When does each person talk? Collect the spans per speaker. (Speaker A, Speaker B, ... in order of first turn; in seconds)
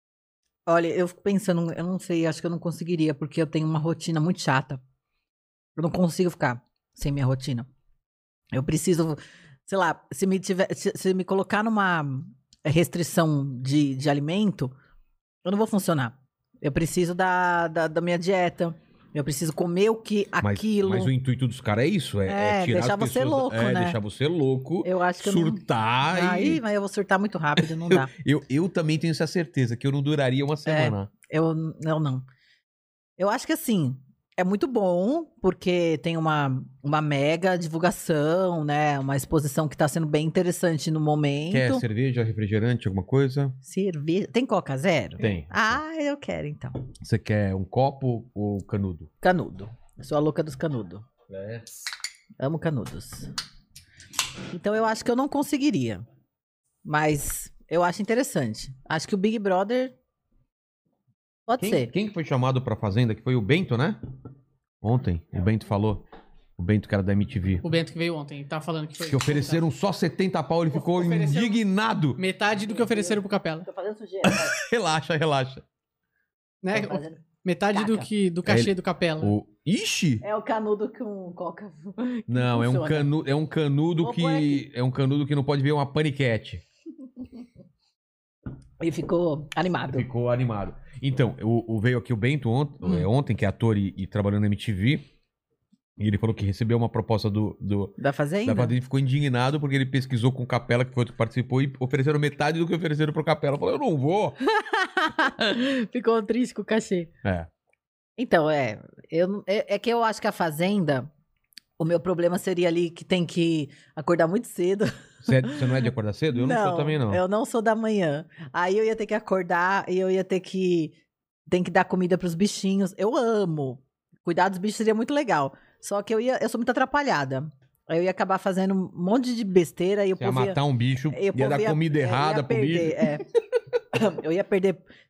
Speaker A: 0.7-4.8, 5.8-7.7, 8.5-14.7, 15.4-21.1, 22.2-24.0, 24.8-28.1, 30.6-32.2, 33.2-41.8, 43.6-46.9, 49.2-51.0, 52.4-53.3, 54.5-56.0, 56.8-59.9, 61.5-61.9, 72.5-74.6, 76.7-78.1, 80.2-83.1, 84.0-84.6, 88.8-90.1, 98.0-98.7, 104.4-107.1, 108.2-111.1, 111.8-120.9, 121.5-130.6, 131.1-133.2, 133.9-134.8
Speaker B: 20.4-26.6, 27.6-31.1, 41.5-43.6, 45.2-45.8, 47.0-49.1, 51.3-51.7, 61.6-64.0, 64.8-66.0, 66.6-67.6, 69.0-72.2, 74.2-75.6, 78.5-80.2, 82.3-86.6, 89.9-95.0, 96.0-104.4, 107.2-107.5, 115.2-117.2, 130.2-133.2
Speaker C: 67.6-69.6, 70.7-71.6, 72.2-73.7, 76.6-79.3